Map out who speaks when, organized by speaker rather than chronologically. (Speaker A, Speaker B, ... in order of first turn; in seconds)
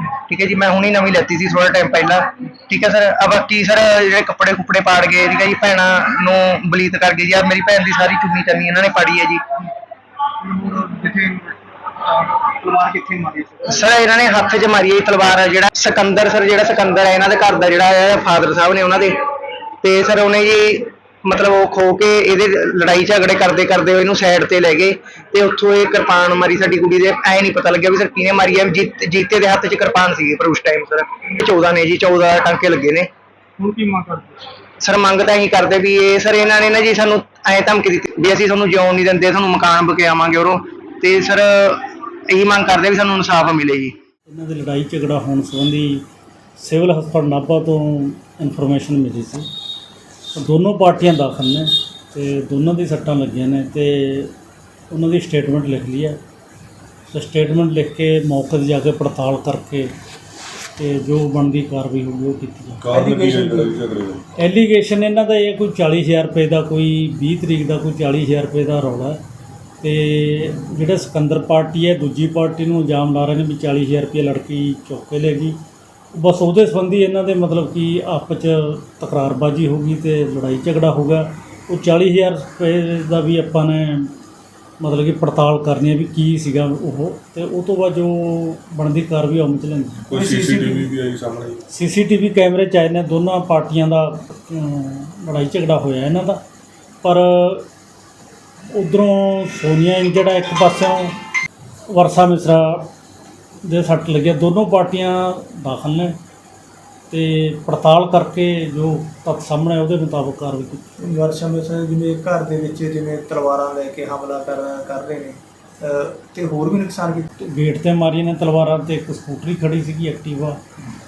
Speaker A: 0.3-9.4, 13.7-19.2, 19.8-33.1, 34.8-43.9
Speaker B: 10.4-13.8, 33.6-34.4
Speaker C: 44.3-46.0, 46.6-49.5, 50.3-54.3, 54.9-56.2, 57.1-59.9, 60.8-62.9, 64.4-69.2, 69.8-75.6, 76.1-84.1, 84.8-90.1, 91.7-96.4, 97.0-97.7, 98.7-101.2, 101.9-102.9, 103.6-106.2, 107.1-110.9, 117.4-120.6
Speaker D: 62.8-64.2, 90.1-91.6
Speaker E: 62.9-63.8, 90.1-90.9, 111.1-117.3